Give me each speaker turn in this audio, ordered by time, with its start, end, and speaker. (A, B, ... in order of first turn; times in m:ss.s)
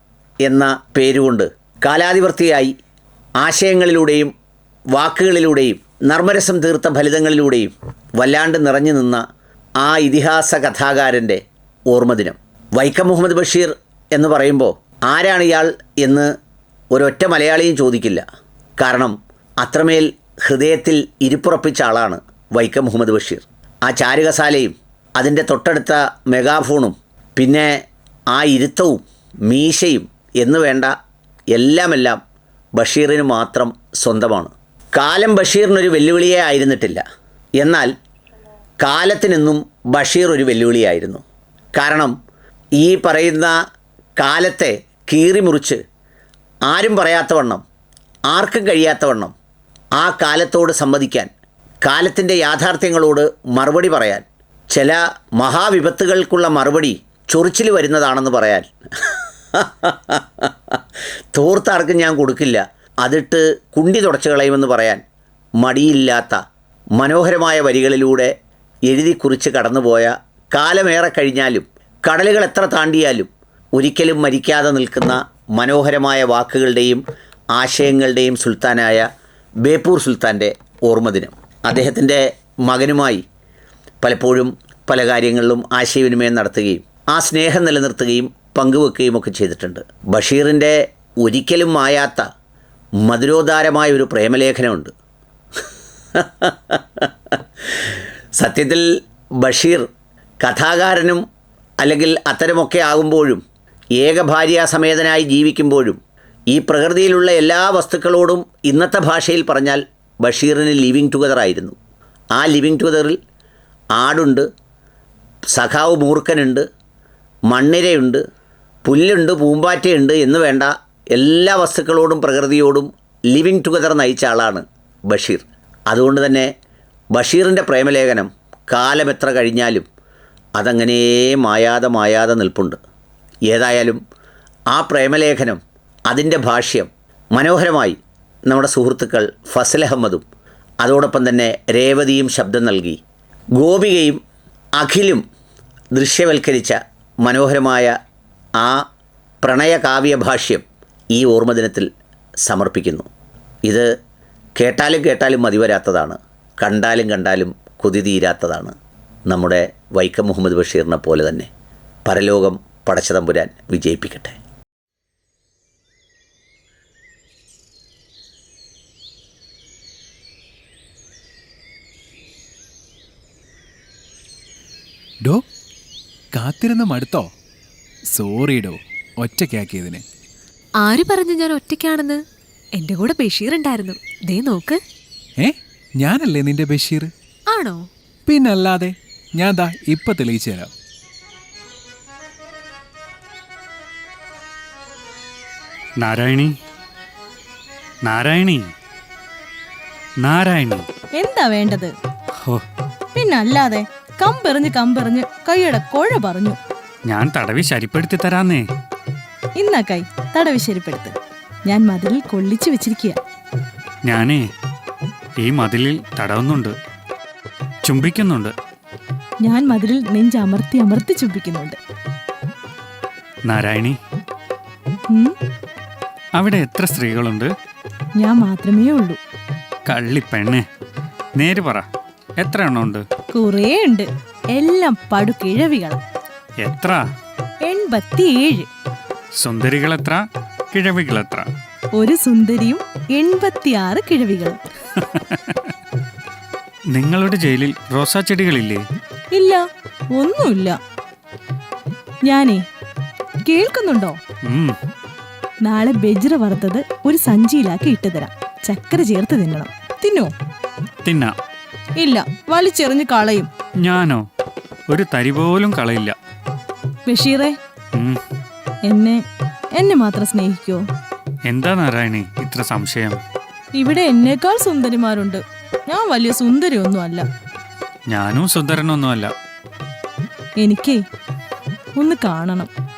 0:00.4-0:02.7 A
0:03.4-0:04.3 A
0:05.0-0:09.2 A
0:09.8-0:11.4 A
0:11.9-0:16.3 A
0:16.9-0:18.2 A
0:18.8-0:27.8 A
0:28.3-0:30.9 A
0:31.5-0:32.2 A
0:32.8-0:37.0 A
0:37.6-0:37.9 A
0:38.8-0:41.2 A
0:41.8-0:42.2 A
0:42.8-0:43.6 A
0:44.2-0:45.8 A
0:46.7-0:47.6 A
0:48.3-0:49.3 A
0:50.0-0:51.3 A
0:51.8-1:00.5 A
1:01.3-1:05.0 A
1:05.6-1:06.4 A
1:07.0-1:08.3 A
1:08.9-1:17.0 A
1:17.6-1:19.1 A
1:19.6-1:23.2 A
1:24.0-1:32.3 A
1:33.0-1:34.9 A
1:36.2-1:37.1 A
1:38.4-1:38.9 A
1:39.4-1:39.9 A
1:40.4-1:41.2 A
1:41.8-1:43.4 A
1:44.0-1:46.0 A
1:46.5-1:51.8 A
1:52.4-1:53.2 A
1:54.0-1:54.5 A
1:55.5-1:56.7 A
1:57.5-1:58.2 A
1:58.8-2:06.5 A
2:07.1-2:09.9 A
2:10.6-2:12.8 A
2:13.5-2:14.0 A
2:14.7-2:20.2 A
2:20.8-2:23.0 A
2:23.6-2:24.2 A
2:24.8-2:25.2 A
2:25.9-2:27.9 A
2:28.6-2:28.8 A
2:29.4-2:31.9 A
2:32.5-2:33.1 A
2:34.6-2:38.7 A
2:39.3-2:41.5 A
2:42.1-2:44.4 A
2:56.3-2:57.3 B
2:58.1-3:00.0 B
3:00.8-3:02.2 C
3:02.8-3:04.8 C
3:05.4-3:07.1 B
3:07.5-3:07.9 C
3:08.3-3:10.7 B
3:16.0-3:16.5 D
3:18.1-3:18.7 D
3:20.2-3:20.9 D
3:21.2-3:21.9 E
3:23.2-3:26.6 E
3:27.1-3:28.7 D
3:29.6-3:31.2 E
3:31.7-3:33.2 E
3:34.1-3:34.4 D
3:35.4-3:36.7 D
3:37.9-3:38.5 D
3:39.4-3:41.8 E
3:43.5-3:44.0 D
3:46.4-3:47.5 D
3:48.2-3:49.2 E
3:49.9-3:50.6 D
3:51.4-3:51.9 D
3:52.4-3:53.0 D
3:53.3-3:56.0 E
3:56.6-3:57.0 D
3:57.6-3:58.7 E
3:59.4-4:01.5 D
4:02.0-4:04.6 E
4:05.0-4:05.6 D
4:07.0-4:08.8 D
4:09.3-4:09.6 E
4:10.2-4:10.8 E
4:12.3-4:12.6 E
4:13.5-4:14.2 E
4:14.5-4:14.8 D
4:15.6-4:20.3 E
4:21.0-4:21.3 D
4:22.0-4:23.5 E
4:23.8-4:24.2 D
4:24.9-4:26.2 D
4:27.1-4:27.6 E
4:28.9-4:29.2 E
4:29.8-4:30.8 E
4:31.5-4:33.2 D
4:33.8-4:37.3 E
4:38.1-4:39.3 D
4:40.6-4:41.0 E
4:42.0-4:42.7 E